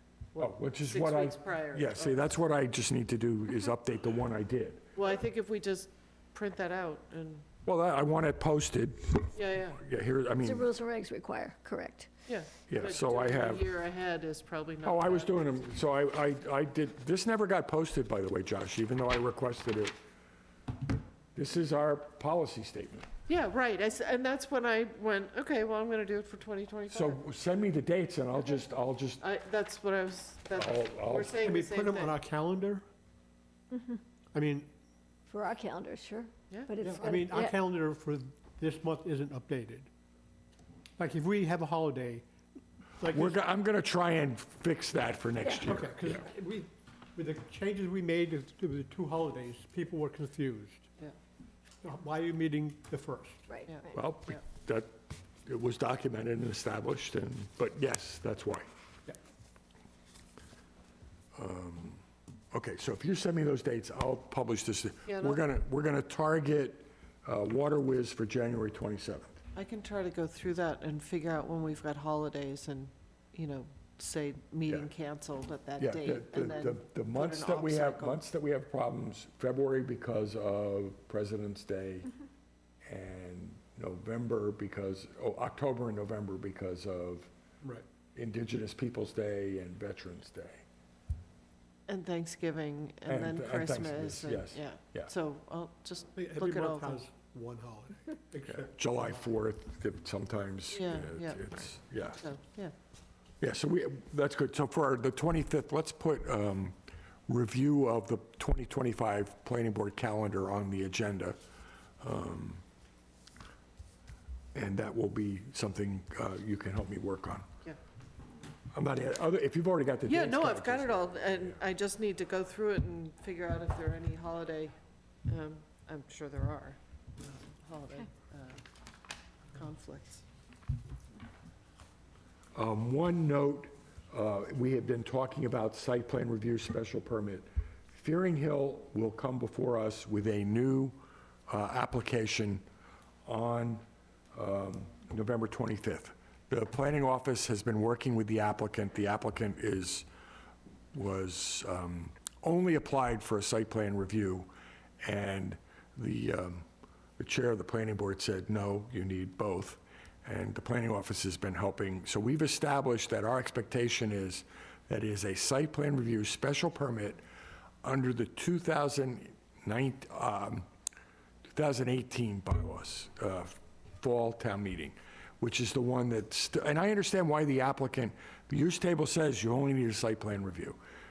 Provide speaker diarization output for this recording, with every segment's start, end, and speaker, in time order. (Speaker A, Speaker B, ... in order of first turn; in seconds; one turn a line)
Speaker A: 0.3-2.3
Speaker B: 0.4-4.8
Speaker A: 5.0-7.5
Speaker B: 7.7-10.7
Speaker A: 9.3-9.8
Speaker C: 10.4-12.1
Speaker A: 12.3-15.6
Speaker B: 12.7-13.7
Speaker B: 14.8-19.9
Speaker B: 21.3-23.1
Speaker A: 23.3-27.2
Speaker B: 26.9-29.2
Speaker A: 29.2-32.1
Speaker B: 30.5-31.4
Speaker D: 31.4-32.8
Speaker C: 33.7-34.0
Speaker D: 34.3-34.7
Speaker C: 35.3-37.6
Speaker D: 36.8-39.9
Speaker D: 41.0-42.2
Speaker D: 43.0-43.4
Speaker B: 43.1-46.2
Speaker D: 45.6-50.9
Speaker D: 51.8-53.5
Speaker C: 53.5-53.9
Speaker A: 53.7-54.4
Speaker B: 53.9-54.9
Speaker B: 55.5-58.7
Speaker B: 61.3-69.4
Speaker A: 65.0-65.4
Speaker A: 69.5-78.2
Speaker B: 75.8-82.1
Speaker B: 82.8-87.3
Speaker B: 88.1-90.6
Speaker A: 91.9-97.0
Speaker B: 93.0-95.1
Speaker D: 96.1-99.2
Speaker B: 98.5-102.2
Speaker A: 100.7-102.7
Speaker B: 103.4-106.8
Speaker B: 107.3-111.4
Speaker B: 112.0-112.6
Speaker B: 114.5-117.5
Speaker B: 118.7-121.5
Speaker A: 120.0-128.6
Speaker A: 129.5-130.2
Speaker B: 132.5-142.6
Speaker B: 143.2-143.8
Speaker B: 144.3-150.1
Speaker B: 150.9-154.5
Speaker B: 155.0-156.7
Speaker B: 157.2-167.2
Speaker B: 167.8-170.7
Speaker B: 171.5-180.8